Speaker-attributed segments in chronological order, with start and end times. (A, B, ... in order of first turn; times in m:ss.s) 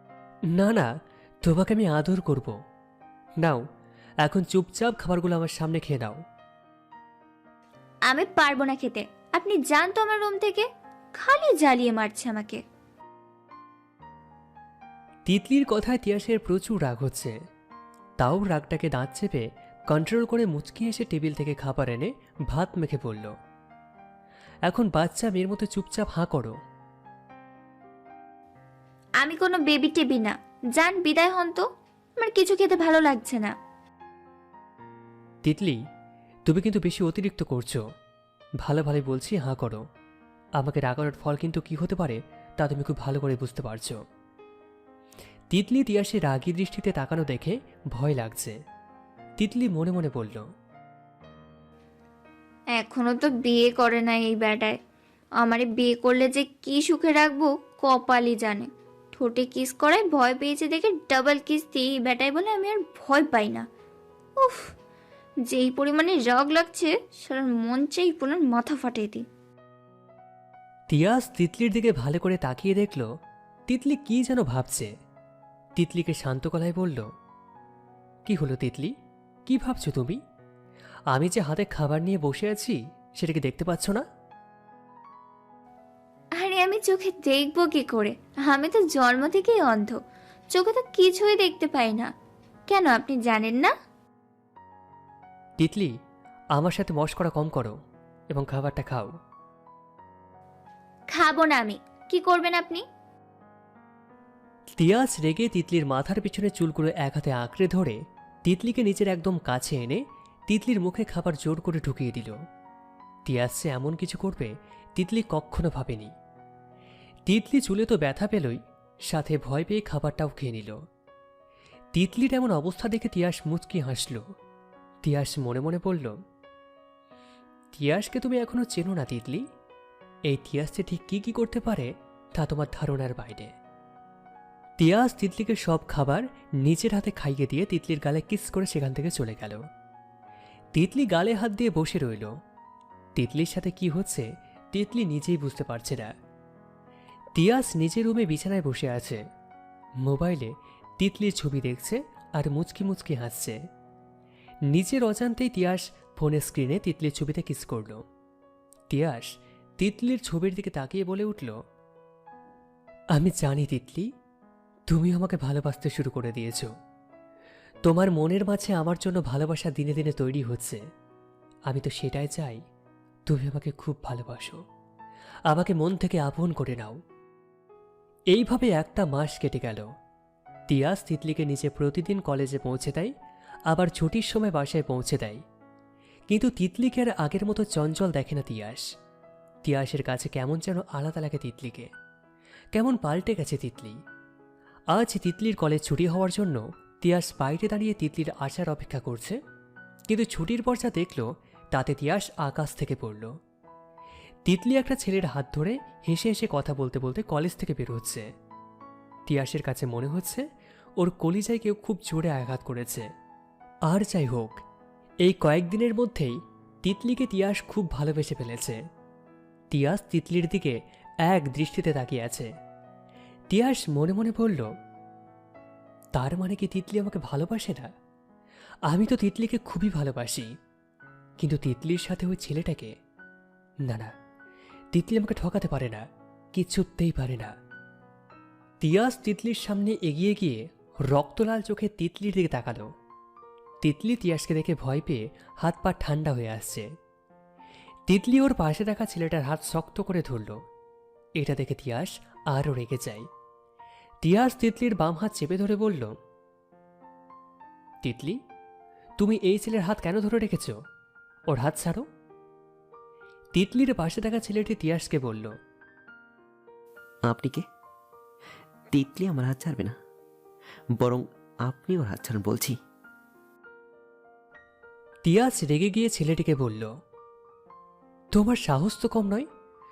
0:00.5-0:00.9 A
0:01.4-0:02.6 A
0:04.2-0:06.2 A
0:08.1-0:10.7 B
0:11.2-0:12.6 B
0:15.3-0:17.3 A
0:18.2-0:23.3 A
0:24.7-0:26.5 A
0:29.2-0:31.6 B
0:32.2-0:33.5 B
0:35.4-0:35.8 A
0:36.5-0:37.8 A
0:38.6-0:39.8 A
0:40.6-0:44.0 A
0:45.5-0:48.5 A
0:49.4-0:50.4 A
0:52.8-0:54.8 B
0:55.4-1:03.6 B
1:04.4-1:04.7 B
1:05.5-1:09.2 B
1:10.9-1:13.1 A
1:13.7-1:14.9 A
1:15.8-1:17.1 A
1:18.3-1:18.9 A
1:19.5-1:20.2 A
1:21.1-1:24.0 A
1:26.4-1:30.0 B
1:30.5-1:32.1 B
1:32.7-1:33.7 B
1:35.6-1:35.9 A
1:36.6-1:37.8 A
1:38.3-1:39.1 A
1:41.1-1:42.8 B
1:44.8-1:52.4 A
1:53.3-1:56.1 A
1:57.3-2:00.8 A
2:01.9-2:04.2 A
2:05.0-2:06.2 A
2:07.7-2:09.4 A
2:10.3-2:13.5 A
2:14.8-2:19.6 A
2:20.8-2:22.3 A
2:23.2-2:26.1 A
2:27.4-2:29.2 A
2:30.0-2:33.6 A
2:34.7-2:38.0 A
2:38.9-2:41.6 A
2:43.2-2:44.1 A
2:44.9-2:46.7 A
2:47.8-2:50.8 A
2:51.7-2:52.6 A
2:53.3-2:54.6 A
2:55.5-2:57.0 A
2:58.3-2:59.9 A
3:00.7-3:03.1 A
3:03.7-3:05.4 A
3:06.3-3:08.8 A
3:09.6-3:11.9 A
3:12.7-3:14.0 A
3:14.9-3:19.4 A
3:20.1-3:23.3 A
3:24.5-3:28.3 A
3:29.3-3:30.5 A
3:31.0-3:33.1 A
3:33.9-3:34.6 A
3:35.2-3:38.8 A
3:39.7-3:42.5 A
3:43.5-3:44.7 A
3:46.2-3:47.9 A
3:48.9-3:50.5 A
3:51.4-3:52.9 A
3:53.9-3:54.1 A
3:54.9-3:57.5 A
3:58.8-4:02.9 A
4:03.8-4:06.9 A
4:08.1-4:10.6 A
4:11.4-4:13.3 A
4:14.2-4:16.1 A
4:18.0-4:18.4 A
4:19.2-4:20.8 A
4:21.5-4:22.0 A
4:23.6-4:25.5 A
4:27.3-4:27.6 C
4:28.9-4:30.0 C
4:31.0-4:32.8 C
4:35.2-4:36.9 A
4:38.3-4:39.5 A